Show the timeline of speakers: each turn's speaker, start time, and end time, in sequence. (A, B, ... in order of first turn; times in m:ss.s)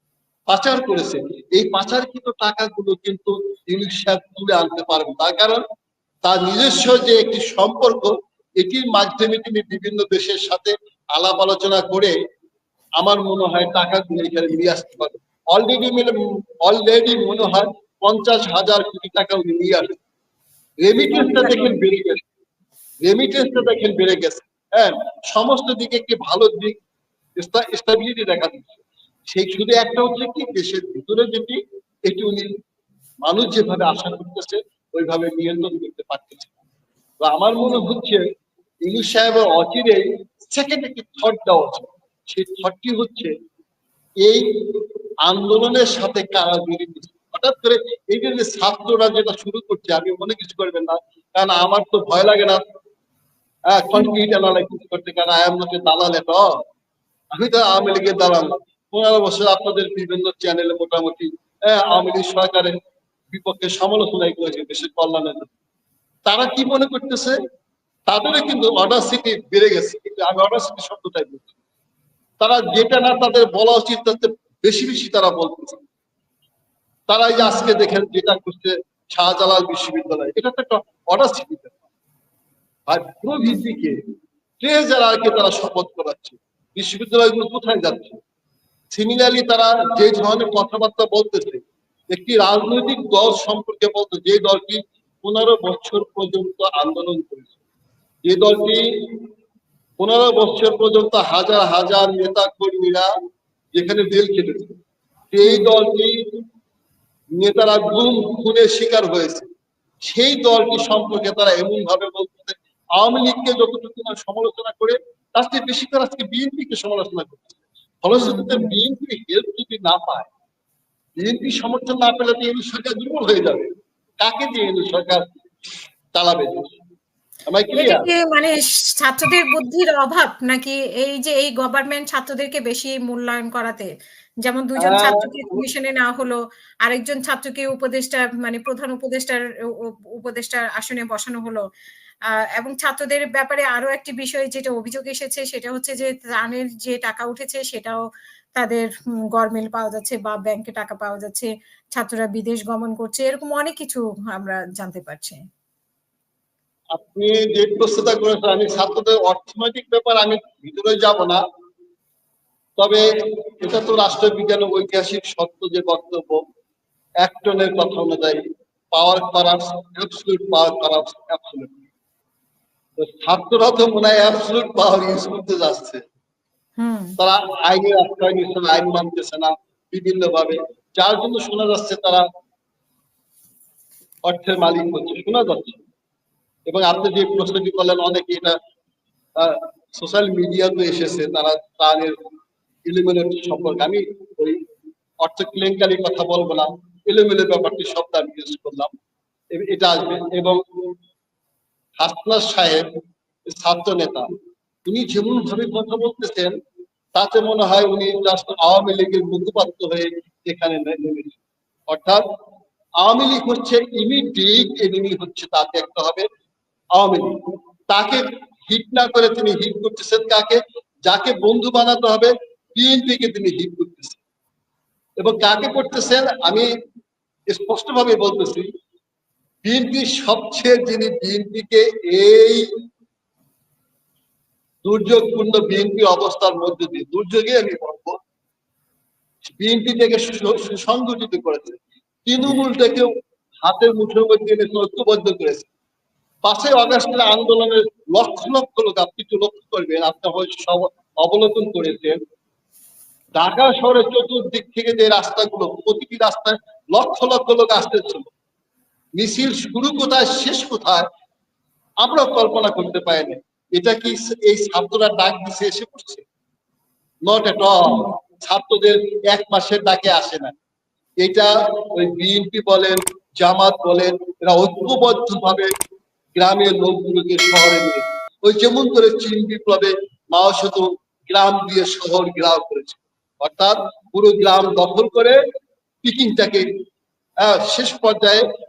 0:00.5-0:05.6 A
0:06.2-0:12.1 A
0:13.0-0:20.0 A
0:20.8-0:22.2 A
0:21.1-0:21.8 B
0:23.0-0:26.8 A
0:27.4-0:32.5 A
0:33.2-0:36.5 A
0:37.2-0:38.2 A
0:38.9-0:43.3 A
0:45.2-0:52.6 A
0:53.7-0:56.6 A
0:57.4-1:02.7 A
1:03.3-1:05.5 A
1:06.3-1:07.3 A
1:08.1-1:11.5 A
1:12.4-1:15.8 A
1:17.1-1:21.8 A
1:22.9-1:24.0 A
1:24.6-1:28.2 A
1:28.9-1:37.6 A
1:38.2-1:39.2 A
1:40.0-1:43.1 A
1:43.8-1:44.8 A
1:45.3-1:46.2 A
1:45.4-1:45.7 B
1:47.4-1:49.5 A
1:50.1-2:00.3 A
1:58.2-1:58.8 B
2:01.2-2:03.7 A
2:04.2-2:05.2 A
2:06.2-2:06.7 A
2:07.5-2:08.1 A
2:07.8-2:13.9 B
2:14.4-2:21.6 B
2:14.8-2:15.6 A
2:22.4-2:28.0 B
2:28.6-2:35.4 B
2:36.9-2:41.4 A
2:42.8-2:46.4 A
2:47.2-2:48.4 A
2:48.9-2:51.8 A
2:53.0-2:56.0 A
2:56.8-2:57.2 B
2:57.2-3:02.3 A
3:04.2-3:05.8 A
3:06.7-3:08.6 A
3:09.4-3:12.2 A
3:12.9-3:14.6 A
3:15.2-3:18.9 A
3:19.5-3:20.6 A
3:22.0-3:22.9 A
3:23.5-3:24.3 A
3:24.9-3:26.5 A
3:27.2-3:32.2 A
3:33.0-3:36.3 A
3:37.0-3:37.3 A
3:37.9-3:44.2 A
3:45.2-3:46.7 A
3:47.5-3:48.7 A
3:49.6-3:52.7 A
3:54.8-3:58.2 A
3:59.4-4:03.1 A
4:03.6-4:05.7 A
4:06.4-4:12.2 A
4:13.4-4:18.3 A
4:19.2-4:21.1 A
4:22.0-4:26.3 A
4:27.3-4:30.5 A
4:31.2-4:35.7 A
4:36.4-4:45.4 A
4:46.0-4:46.7 A
4:47.4-4:48.4 A